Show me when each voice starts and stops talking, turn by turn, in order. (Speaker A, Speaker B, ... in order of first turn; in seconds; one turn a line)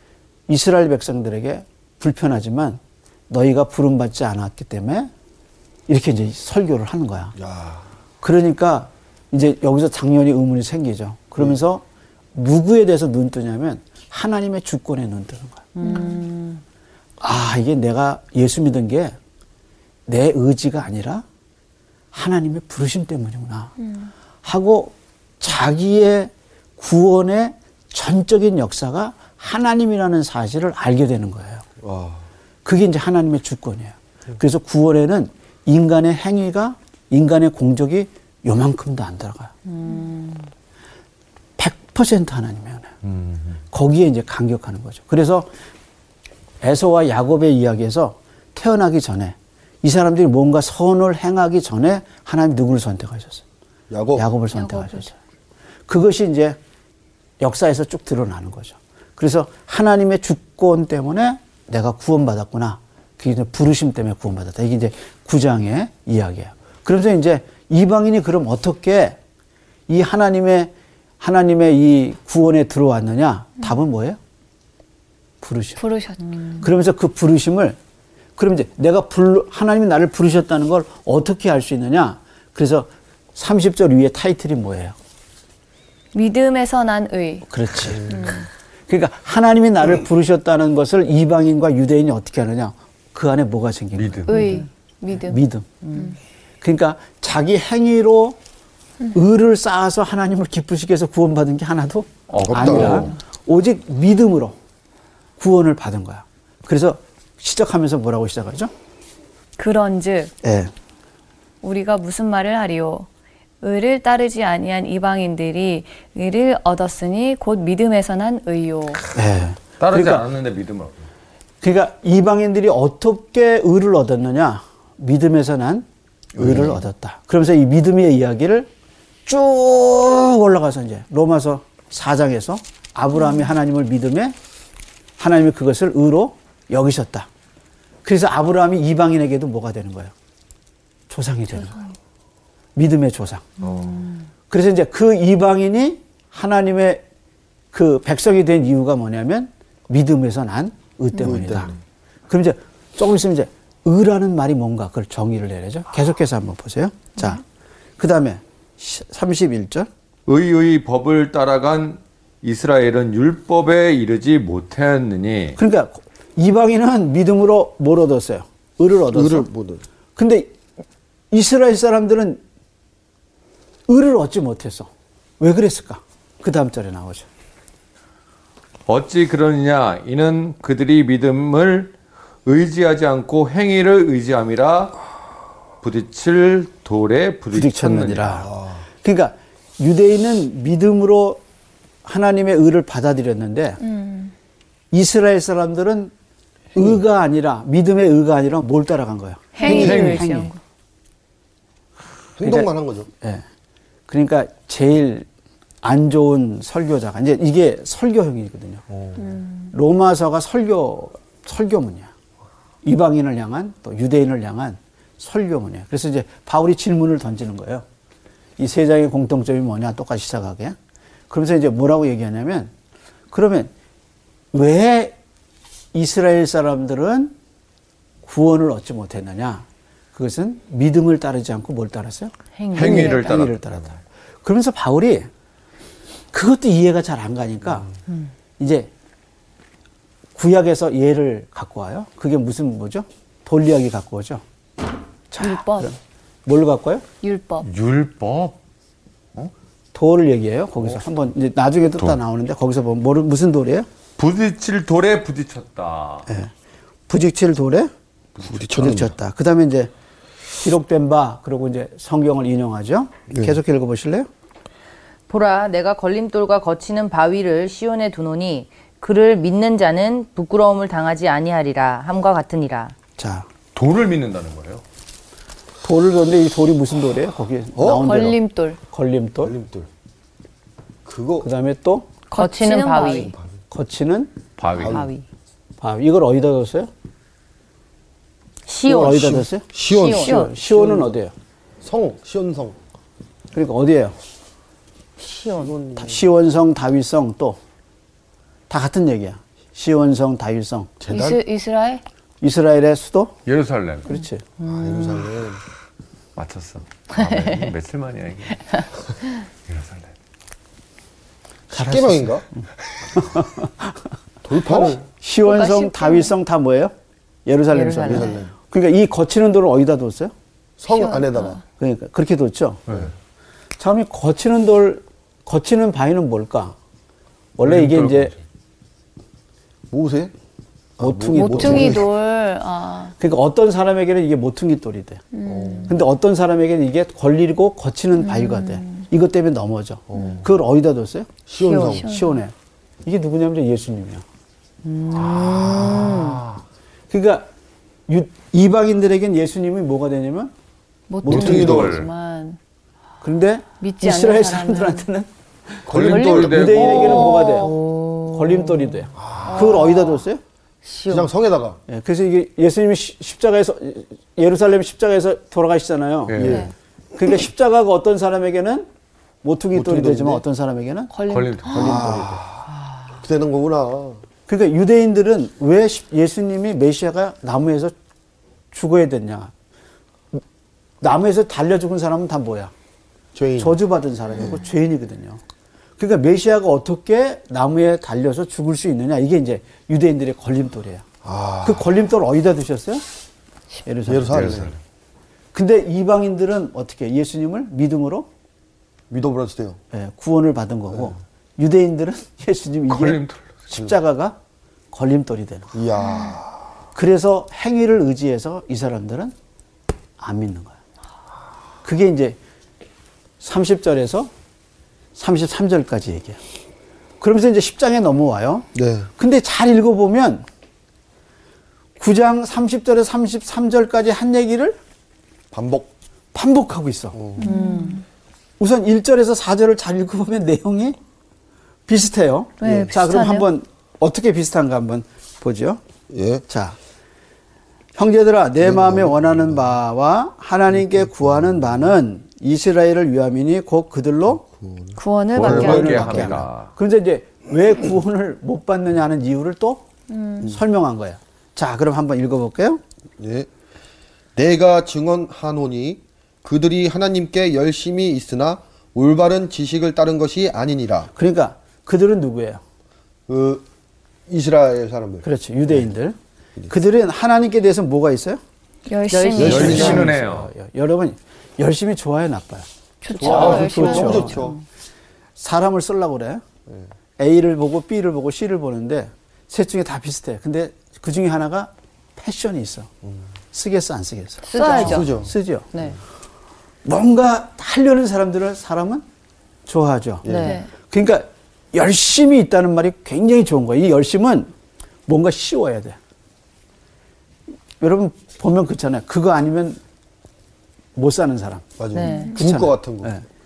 Speaker A: 0.5-5.1
Speaker A: 5.9-7.3
Speaker B: 7.4-7.8
Speaker A: 8.2-15.7
Speaker C: 15.8-16.6
Speaker D: 15.8-16.2
Speaker A: 17.2-19.2
Speaker A: 20.1-21.2
Speaker A: 22.1-23.7
Speaker D: 23.8-24.1
Speaker A: 24.4-31.6
Speaker B: 31.8-32.2
Speaker A: 32.6-39.5
Speaker C: 39.7-40.5
Speaker A: 41.6-42.9
Speaker E: 43.1-43.4
Speaker A: 43.7-45.5
Speaker A: 46.6-53.4
Speaker B: 53.9-54.2
Speaker A: 54.1-55.1
Speaker D: 54.5-55.1
Speaker A: 55.9-56.6
Speaker A: 57.4-69.2
Speaker A: 69.9-74.2
Speaker A: 75.4-75.8
Speaker D: 75.8-76.4
Speaker A: 76.6-77.8
Speaker A: 78.4-85.0
Speaker D: 86.1-87.5
Speaker A: 87.5-88.3
Speaker D: 88.1-88.5
Speaker A: 88.9-95.7
Speaker E: 94.0-94.7
Speaker D: 94.3-95.4
Speaker A: 96.6-98.4
Speaker A: 99.1-104.6
Speaker E: 102.3-103.1
Speaker B: 102.4-103.1
Speaker A: 105.4-108.7
Speaker D: 109.6-110.3
Speaker A: 110.4-110.7
Speaker D: 111.6-113.1
Speaker D: 113.6-119.0
Speaker A: 119.1-120.3
Speaker E: 119.8-121.0
Speaker A: 121.6-125.9
Speaker A: 126.4-128.7
Speaker A: 129.3-134.4
Speaker A: 135.2-137.3
Speaker A: 138.0-140.1
Speaker A: 141.1-141.8
Speaker D: 141.7-141.9
Speaker A: 142.8-143.6
Speaker E: 143.6-144.1
Speaker A: 144.5-147.0
Speaker A: 147.7-151.7
Speaker B: 151.2-151.8
Speaker A: 152.3-157.4
Speaker A: 158.0-159.9
Speaker E: 160.3-165.6
Speaker A: 165.6-169.5
Speaker B: 169.1-169.8
Speaker A: 170.2-170.5
Speaker A: 171.3-172.4
Speaker A: 173.9-177.3
Speaker E: 178.9-181.9
Speaker E: 182.4-184.9
Speaker E: 185.8-188.5
Speaker A: 187.5-188.5
Speaker B: 188.4-188.8
Speaker A: 189.0-191.4
Speaker A: 192.1-193.8
Speaker D: 193.8-194.3
Speaker A: 194.9-196.1
Speaker A: 196.8-200.5
Speaker D: 199.6-200.6
Speaker E: 199.7-200.5
Speaker B: 202.4-203.1
Speaker A: 202.4-202.7
Speaker A: 204.1-205.3
Speaker A: 205.8-208.8
Speaker B: 208.9-209.2
Speaker D: 209.2-209.7
Speaker A: 209.7-212.1
Speaker A: 212.8-217.8
Speaker A: 218.6-220.8
Speaker A: 221.3-222.7
Speaker A: 223.3-223.7
Speaker A: 224.5-225.2
Speaker A: 225.9-227.3
Speaker A: 228.2-235.3
Speaker C: 232.6-233.1
Speaker E: 232.7-233.8
Speaker A: 236.3-237.9
Speaker A: 238.6-238.9
Speaker A: 240.3-244.4
Speaker A: 245.3-247.1
Speaker D: 245.4-245.9
Speaker D: 247.2-247.7
Speaker E: 247.6-248.6
Speaker A: 249.9-253.9
Speaker E: 254.2-256.3
Speaker A: 257.1-257.9
Speaker B: 258.4-259.1
Speaker A: 258.6-259.9
Speaker A: 260.6-264.3
Speaker B: 263.3-263.6
Speaker C: 265.3-272.9
Speaker A: 273.2-273.5
Speaker E: 273.7-274.8
Speaker A: 275.8-279.5
Speaker B: 277.8-278.1
Speaker D: 277.9-278.8
Speaker B: 279.4-279.9
Speaker B: 281.1-281.5
Speaker A: 281.4-282.1
Speaker D: 282.3-283.3
Speaker C: 282.3-283.3
Speaker B: 283.1-283.6
Speaker A: 283.7-284.3
Speaker E: 284.6-285.1
Speaker B: 284.8-285.1
Speaker C: 284.8-285.2
Speaker A: 285.8-286.9
Speaker C: 288.7-290.9
Speaker A: 288.9-289.7
Speaker B: 289.0-290.5
Speaker D: 290.0-290.5
Speaker A: 290.2-291.3
Speaker B: 291.8-292.8
Speaker A: 293.5-294.2
Speaker C: 295.2-295.7
Speaker B: 295.6-296.2
Speaker A: 296.0-297.6
Speaker A: 298.7-300.9
Speaker B: 301.0-301.4
Speaker D: 301.1-302.0
Speaker A: 302.4-303.4
Speaker E: 303.5-304.1
Speaker A: 304.1-304.4
Speaker B: 304.6-305.6
Speaker C: 304.6-305.2
Speaker E: 306.4-308.8
Speaker E: 309.7-310.1
Speaker B: 311.7-312.4
Speaker A: 311.7-312.6
Speaker A: 313.1-314.0
Speaker B: 314.4-315.0
Speaker A: 314.5-316.9
Speaker D: 315.4-316.3
Speaker A: 317.5-320.3
Speaker C: 317.7-318.4
Speaker B: 318.1-318.5
Speaker B: 320.8-321.6
Speaker D: 320.9-321.6
Speaker A: 321.8-322.9
Speaker A: 323.8-326.8
Speaker A: 327.6-328.3
Speaker E: 327.6-328.4
Speaker B: 329.9-330.3
Speaker B: 331.0-332.1
Speaker A: 331.0-332.1
Speaker D: 331.3-333.1
Speaker A: 333.2-335.2
Speaker D: 335.3-335.9
Speaker B: 335.4-336.0
Speaker A: 335.9-341.4
Speaker D: 338.2-339.1
Speaker B: 340.1-340.5
Speaker B: 341.5-342.1
Speaker D: 341.6-342.4
Speaker A: 341.9-344.2
Speaker C: 344.9-346.4
Speaker E: 345.1-346.6
Speaker A: 347.1-347.5
Speaker A: 348.1-350.5
Speaker D: 351.1-352.6
Speaker A: 351.2-352.0
Speaker B: 351.2-352.0
Speaker E: 351.3-352.1
Speaker A: 353.2-360.4
Speaker D: 353.8-355.1
Speaker B: 355.9-357.3
Speaker E: 355.9-357.4
Speaker D: 356.1-356.5
Speaker C: 357.4-360.2
Speaker B: 359.2-359.8
Speaker C: 360.8-361.3
Speaker B: 361.1-361.8
Speaker A: 361.9-366.6
Speaker E: 366.3-366.7
Speaker B: 366.4-366.7
Speaker D: 366.4-366.7
Speaker A: 367.2-368.9
Speaker A: 369.4-372.4
Speaker B: 369.7-370.4
Speaker D: 371.1-372.0
Speaker E: 371.3-372.0
Speaker B: 371.7-374.2
Speaker A: 374.5-377.9
Speaker A: 378.7-379.5
Speaker A: 381.0-382.7
Speaker B: 383.4-383.8
Speaker A: 383.6-385.4
Speaker A: 386.0-391.1
Speaker B: 391.2-391.9
Speaker A: 391.6-393.1
Speaker A: 393.8-394.7
Speaker B: 394.1-394.8
Speaker E: 394.3-394.7
Speaker A: 395.5-398.3
Speaker B: 399.1-399.8
Speaker A: 399.9-404.4
Speaker E: 402.9-403.6
Speaker A: 404.9-405.8
Speaker B: 405.7-406.6
Speaker A: 406.9-409.3
Speaker A: 410.2-410.8
Speaker A: 411.8-412.4
Speaker A: 413.4-414.3
Speaker A: 415.2-416.4
Speaker A: 417.2-420.5
Speaker B: 418.8-419.1
Speaker A: 422.0-424.8
Speaker B: 425.5-425.9
Speaker A: 426.3-427.2
Speaker B: 427.1-427.5
Speaker D: 427.4-428.1
Speaker C: 427.4-428.0
Speaker A: 428.6-431.0
Speaker A: 431.9-435.8
Speaker D: 432.6-433.5
Speaker B: 436.1-436.4
Speaker A: 436.5-436.8
Speaker A: 438.0-444.4
Speaker B: 438.6-439.7
Speaker B: 441.4-441.7
Speaker B: 444.5-446.3
Speaker D: 445.0-446.3
Speaker E: 445.4-446.7
Speaker A: 445.4-449.9
Speaker D: 450.1-450.5
Speaker A: 450.4-452.8
Speaker B: 453.2-453.5
Speaker B: 454.4-461.1
Speaker A: 461.1-462.6
Speaker B: 463.3-463.7
Speaker B: 464.3-465.3
Speaker A: 465.2-466.2
Speaker A: 466.7-468.4
Speaker D: 468.9-470.1
Speaker A: 469.3-474.5
Speaker E: 469.3-470.5
Speaker B: 469.4-470.1
Speaker D: 473.0-474.4
Speaker B: 473.2-474.6
Speaker E: 473.2-474.1
Speaker A: 475.4-476.4
Speaker A: 477.2-482.9
Speaker A: 483.5-485.7
Speaker C: 484.5-485.1
Speaker D: 484.5-485.1
Speaker B: 484.6-485.3
Speaker A: 486.9-489.1
Speaker A: 489.7-494.5
Speaker B: 490.2-490.6
Speaker C: 490.3-490.6
Speaker D: 490.4-490.7
Speaker A: 495.1-496.0
Speaker A: 497.8-499.8
Speaker A: 501.0-501.6
Speaker B: 501.8-503.1
Speaker C: 501.9-502.4
Speaker D: 502.0-502.4
Speaker A: 502.4-503.2